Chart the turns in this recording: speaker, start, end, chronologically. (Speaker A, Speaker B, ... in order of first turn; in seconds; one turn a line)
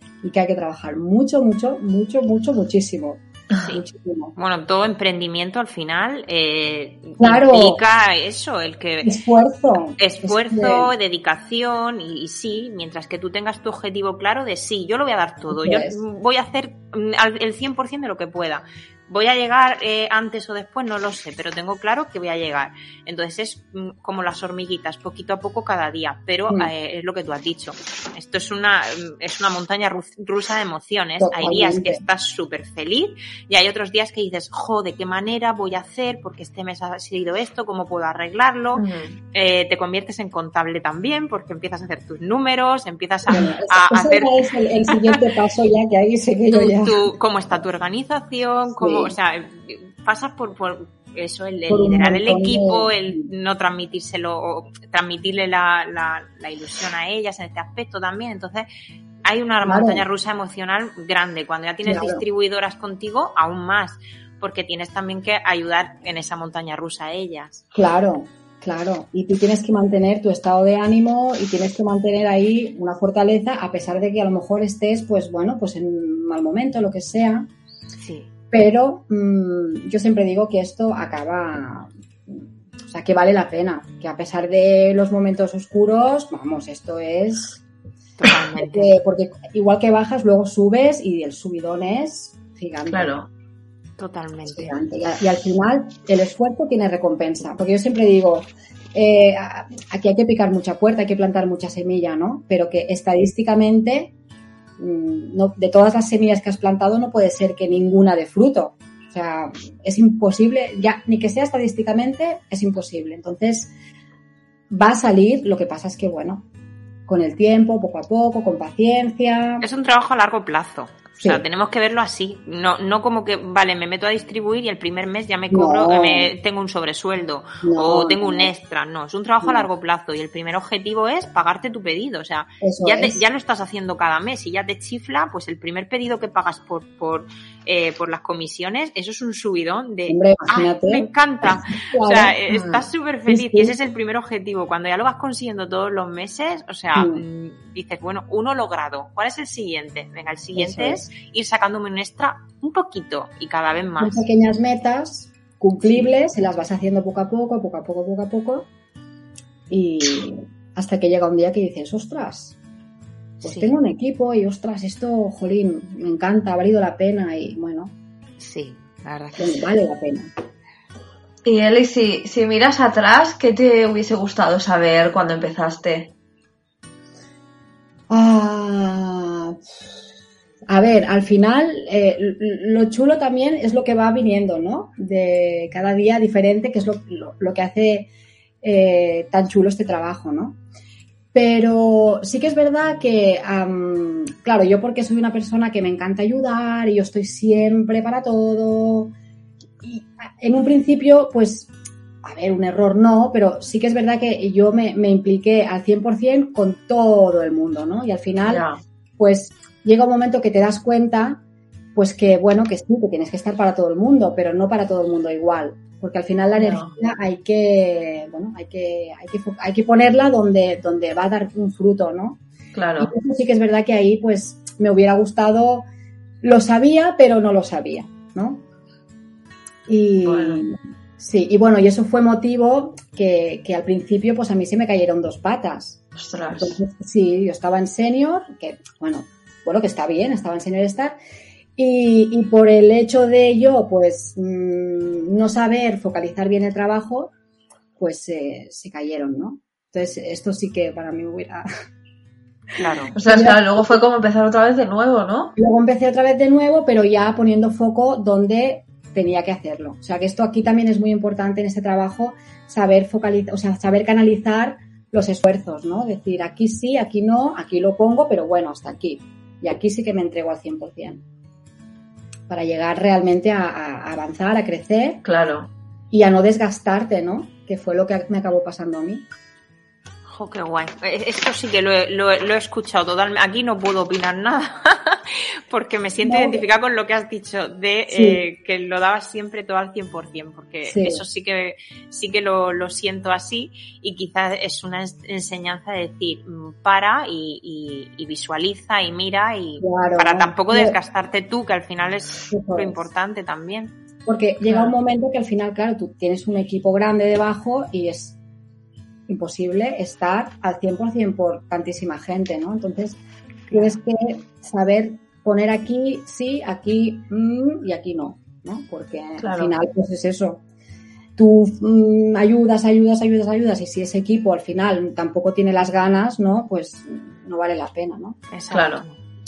Speaker A: 0.2-4.3
Speaker B: 3.6-3.8
Speaker B: 4.3-9.2
Speaker A: 7.2-7.8
Speaker A: 9.0-10.9
Speaker B: 10.0-45.2
Speaker A: 15.5-16.0
Speaker A: 31.2-32.0
Speaker C: 38.8-39.1
Speaker A: 43.3-47.1
Speaker B: 46.5-58.7
Speaker A: 48.7-49.1
Speaker A: 51.7-53.3
Speaker B: 59.2-67.6
Speaker A: 59.6-60.0
Speaker A: 61.8-62.2
Speaker A: 67.7-77.5
Speaker B: 78.0-78.3
Speaker A: 78.5-87.6
Speaker B: 88.2-89.0
Speaker A: 88.5-93.1
Speaker C: 92.9-93.3
Speaker B: 94.0-94.7
Speaker A: 94.5-104.1
Speaker A: 104.8-113.7
Speaker A: 114.7-116.5
Speaker A: 117.1-119.6
Speaker B: 119.6-154.2
Speaker A: 125.5-126.3
Speaker A: 127.6-128.5
Speaker A: 132.6-133.2
Speaker A: 140.1-142.4
Speaker A: 143.3-143.7
Speaker A: 146.9-147.2
Speaker A: 150.6-151.1
Speaker A: 154.0-158.7
Speaker A: 159.7-162.6
Speaker A: 163.4-167.9
Speaker B: 163.4-163.7
Speaker B: 168.4-169.6
Speaker A: 169.4-170.3
Speaker C: 171.4-176.1
Speaker A: 178.1-179.6
Speaker A: 180.7-188.1
Speaker A: 188.6-190.6
Speaker A: 191.3-199.1
Speaker A: 199.8-201.7
Speaker A: 202.2-208.6
Speaker C: 208.4-208.8
Speaker A: 209.2-211.4
Speaker A: 211.9-222.4
Speaker C: 216.6-216.9
Speaker C: 222.7-223.1
Speaker A: 223.0-225.9
Speaker A: 226.4-228.6
Speaker A: 229.9-236.0
Speaker C: 230.2-230.6
Speaker C: 236.2-236.8
Speaker A: 236.5-241.2
Speaker A: 241.8-247.3
Speaker A: 248.0-251.7
Speaker B: 252.8-253.2
Speaker C: 253.1-255.5
Speaker A: 253.2-253.9
Speaker A: 255.6-271.2
Speaker A: 272.5-275.2
Speaker C: 275.2-275.7
Speaker A: 276.1-279.2
Speaker B: 280.3-303.9
Speaker A: 286.2-286.6
Speaker A: 288.1-288.4
Speaker A: 290.8-291.2
Speaker A: 299.8-300.9
Speaker A: 302.5-303.0
Speaker A: 304.2-308.4
Speaker C: 304.7-304.9
Speaker A: 309.3-313.2
Speaker A: 313.7-320.6
Speaker C: 319.4-319.7
Speaker A: 321.4-328.4
Speaker B: 328.5-329.2
Speaker C: 328.7-329.0